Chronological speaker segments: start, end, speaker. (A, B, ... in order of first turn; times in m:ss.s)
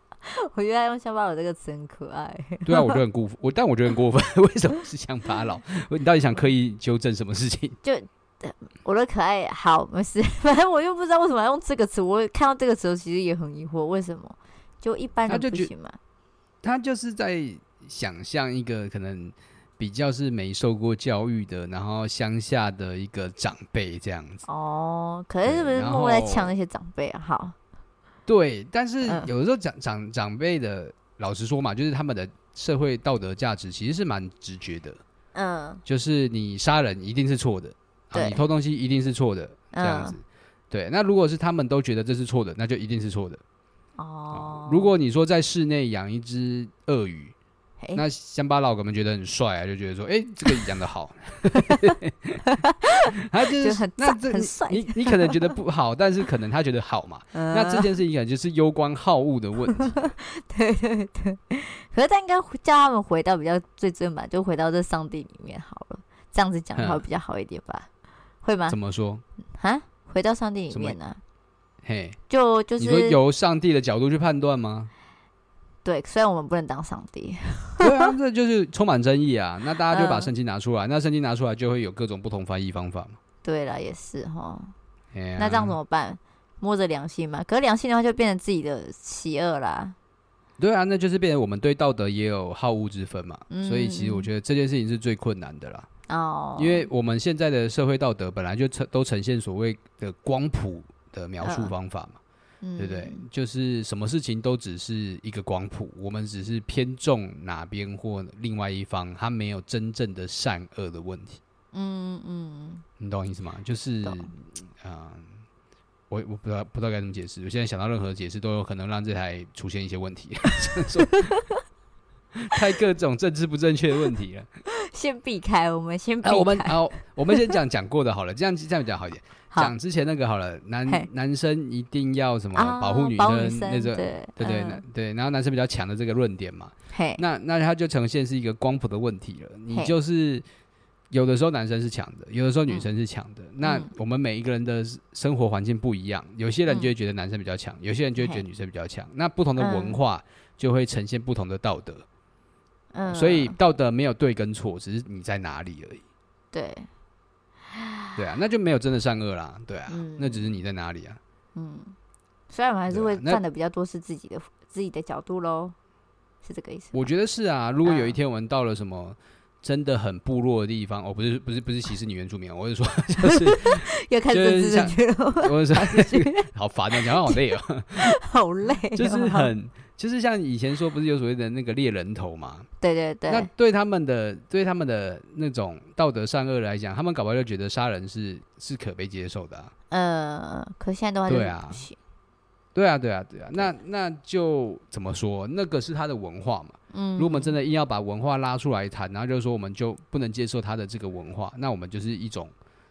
0:00.3-0:03.0 A
0:02.6-0:07.8 B
0:07.8-0:16.0 A
0:15.3-0:15.7 B
0:16.6-0:24.4 B
0:24.5-0:27.6 A
0:25.4-0:26.5 B
0:28.3-0:35.0 B
0:29.0-0:29.3 A
0:35.3-0:35.8 A
0:35.9-0:43.4 B
0:38.1-0:38.4 A
0:39.7-0:40.2 A
0:44.0-0:44.9 A
0:44.3-0:47.4 B
0:47.9-0:52.4 B
0:51.6-0:51.9 A
0:52.5-0:55.5 A
0:53.2-1:00.1 B
0:57.3-0:57.9 A
0:59.7-1:07.9 A
1:06.8-1:07.0 B
1:08.4-1:08.8 A
1:08.7-1:09.2 B
1:09.6-1:11.2 A
1:10.7-1:11.0 B
1:11.8-1:12.2 B
1:12.3-1:13.2 A
1:12.8-1:14.9 B
1:15.8-1:18.1 A
1:17.8-1:23.2 B
1:19.9-1:20.3 A
1:23.4-1:24.7 A
1:25.1-1:25.8 B
1:25.4-1:29.9 A
1:30.6-1:35.9 B
1:33.5-1:34.3 A
1:36.1-1:36.9 A
1:36.6-1:42.2 B
1:41.4-1:41.7 A
1:42.6-1:43.2 A
1:42.8-1:51.4 B
1:51.7-1:52.8 A
1:53.0-1:55.4 B
1:54.0-1:54.3 A
1:56.1-2:01.3 B
2:01.1-2:01.6 A
2:02.4-2:04.5 B
2:04.7-2:07.6 A
2:06.2-2:20.4 B
2:12.6-2:14.8 A
2:16.9-2:17.2 A
2:21.1-2:32.0 B
2:23.6-2:23.9 A
2:28.2-2:28.4 A
2:29.6-2:30.0 A
2:32.9-2:33.6 A
2:33.1-2:36.0 B
2:36.5-2:36.9 A
2:37.7-2:38.2 A
2:38.2-2:41.2 B
2:39.9-2:40.5 A
2:41.6-2:41.9 A
2:42.5-2:45.8 A
2:42.9-2:43.4 B
2:46.4-2:47.1 A
2:46.9-2:58.1 B
2:47.8-2:48.2 A
2:53.2-2:57.4 A
2:58.0-2:59.5 A
2:58.9-3:02.7 B
3:02.8-3:03.5 A
3:03.3-3:09.7 B
3:09.9-3:12.0 A
3:11.3-3:11.8 B
3:12.8-3:22.5 B
3:16.9-3:17.6 A